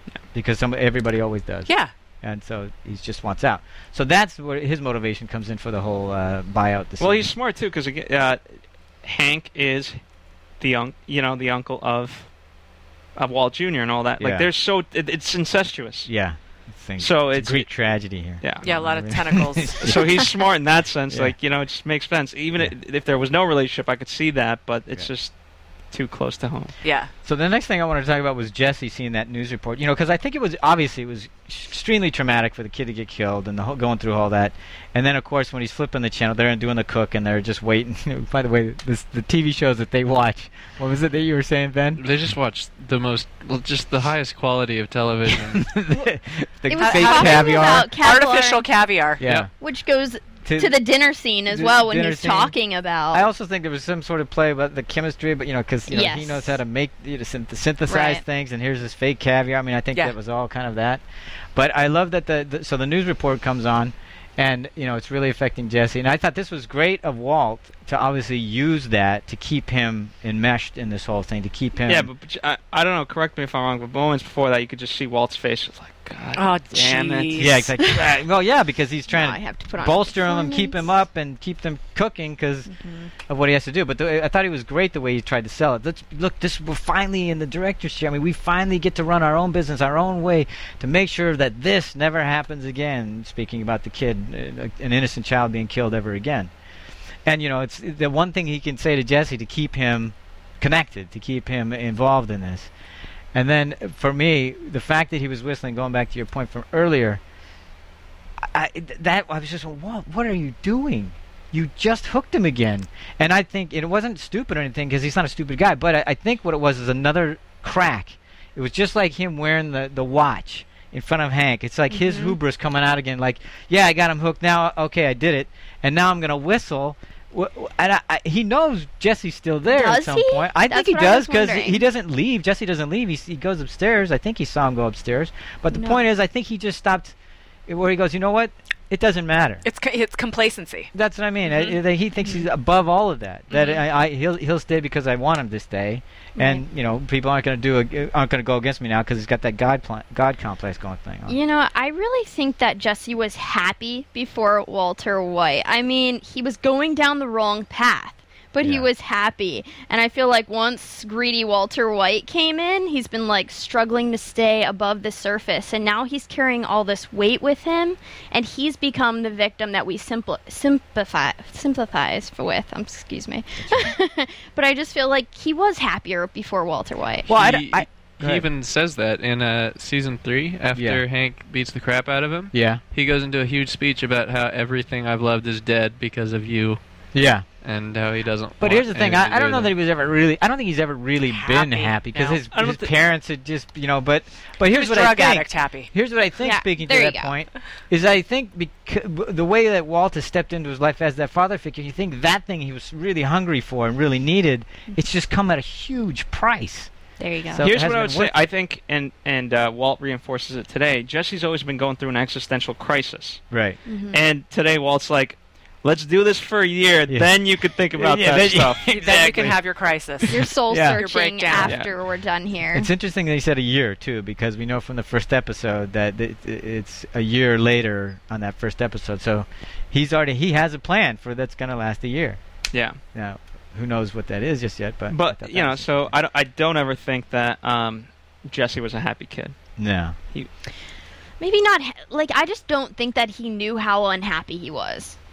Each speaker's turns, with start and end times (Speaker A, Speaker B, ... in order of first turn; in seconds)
Speaker A: 0.3-1.7, 2.2-7.3, 14.2-14.5, 16.1-20.3, 21.1-21.4, 27.2-42.0, 45.3-47.9, 49.2-49.5, 50.4-50.8, 51.5-52.5, 53.1-61.0, 61.5-72.1, 77.4-82.7, 83.3-96.5, 97.2-102.7, 103.3-107.2, 108.4-137.1, 137.7-139.6, 140.9-151.4, 158.6-158.9, 173.6-173.9, 177.3-178.5, 180.7-181.0, 182.5-182.8, 187.1-187.4, 188.6-206.9, 207.5-208.3, 213.5-213.8, 217.1-217.4, 217.9-219.6, 220.7-221.0, 222.7-232.4, 233.1-236.1, 239.8-240.2
Speaker B: 1.7-1.9, 18.6-20.0, 26.8-27.1, 46.7-49.2, 76.3-77.7, 139.6-140.9, 191.3-192.4, 194.7-195.9, 218.9-221.8
Speaker C: 7.0-10.0, 10.6-12.3, 13.2-16.1, 17.0-17.7, 19.8-25.3, 25.9-26.7, 71.8-77.6, 192.5-192.9, 207.6-213.4, 214.1-219.5, 221.6-221.9, 232.7-233.0, 235.1-239.5
Speaker D: 42.0-45.7, 177.3-186.8, 187.6-189.7
Speaker E: 46.7-48.6, 49.3-53.3, 55.9-56.5, 57.9-58.2, 79.1-80.9, 121.9-122.4, 129.7-131.8, 135.7-136.0, 146.4-146.6, 151.3-177.3, 196.4-197.3, 207.2-207.6, 213.9-214.2, 220.3-222.9, 241.4-245.2